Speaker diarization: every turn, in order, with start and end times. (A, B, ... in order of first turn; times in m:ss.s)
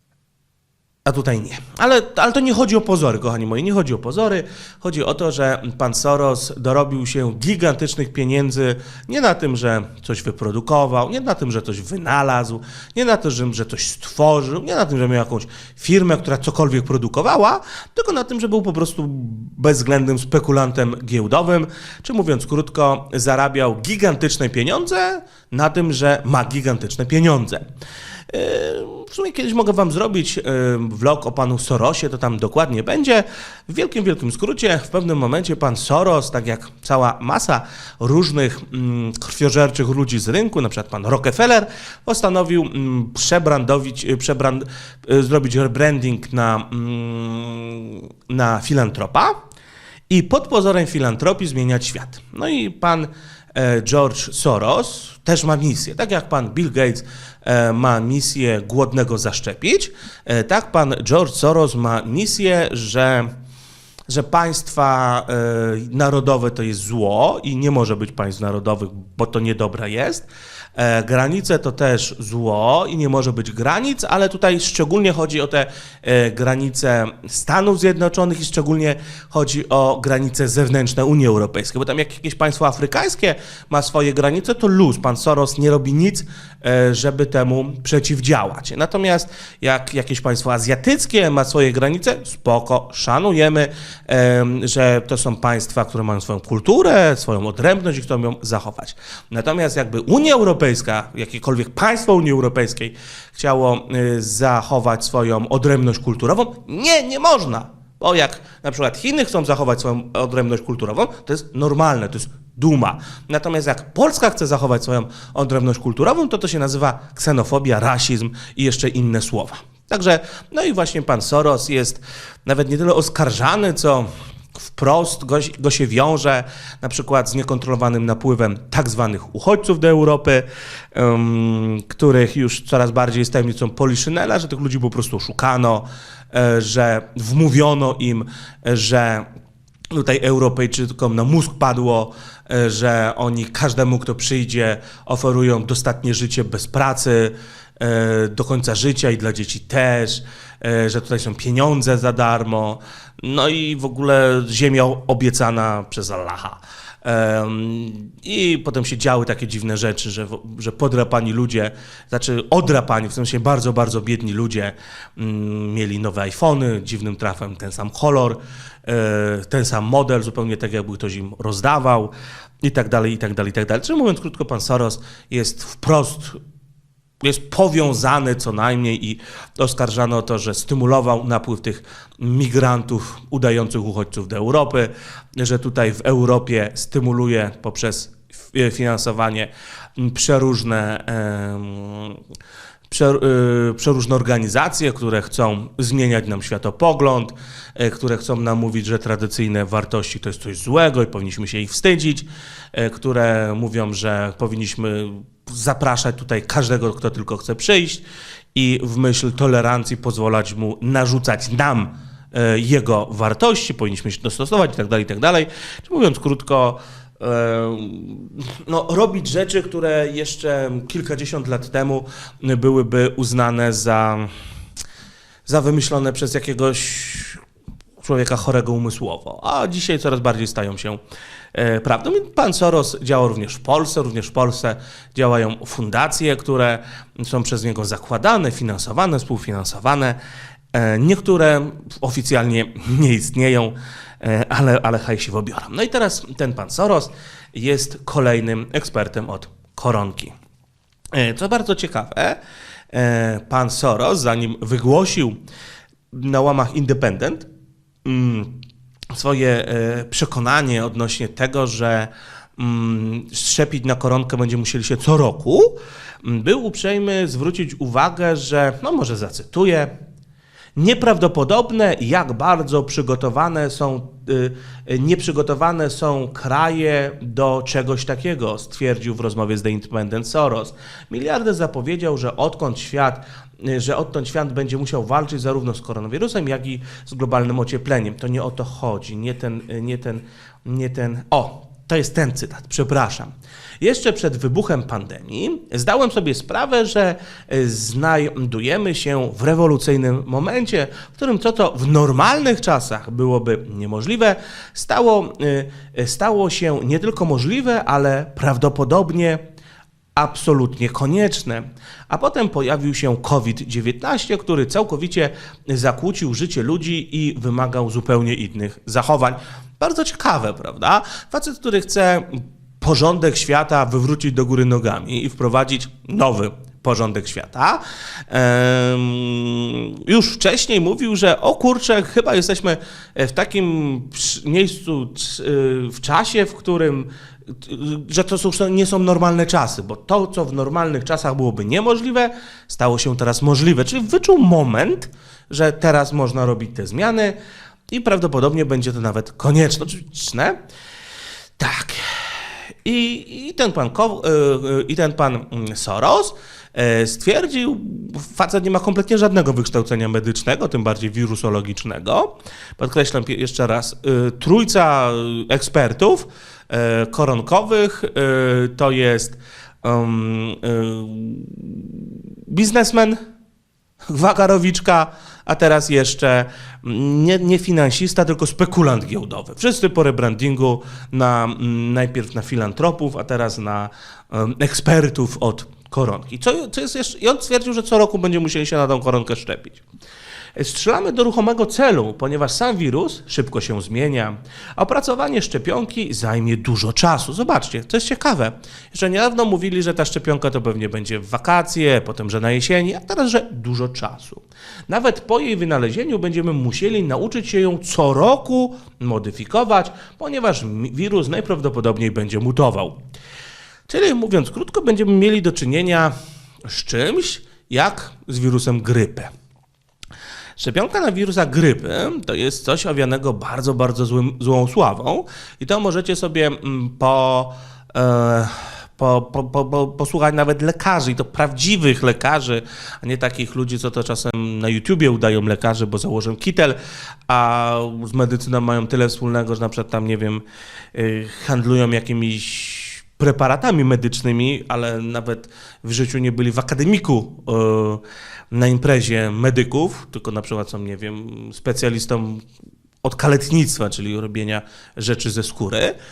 0:01.0-0:27.6 A
0:28.3-0:49.4 A
0:50.1-1:03.3 A
1:04.1-2:19.3 A
2:19.9-2:56.4 A
2:57.2-3:12.2 A
3:12.9-3:28.0 A
3:28.5-3:44.3 A
3:45.5-3:47.4 A
3:48.0-3:51.0 A
3:51.5-4:00.2 A
4:00.7-4:10.3 A
4:11.1-4:12.4 A
4:12.9-4:15.4 A
4:16.1-4:17.5 A
4:18.0-4:18.6 A
4:19.1-4:29.9 A
4:30.8-5:09.4 A
5:10.2-5:47.4 A
5:47.9-5:50.6 A
5:51.6-5:52.2 A
5:52.8-6:13.2 A
6:14.1-6:29.8 A
6:30.6-6:53.0 A
6:53.9-6:56.1 A
6:56.7-6:59.3 A
7:00.6-7:16.8 A
7:17.3-7:20.4 A
7:20.9-7:32.4 A
7:33.0-7:36.0 A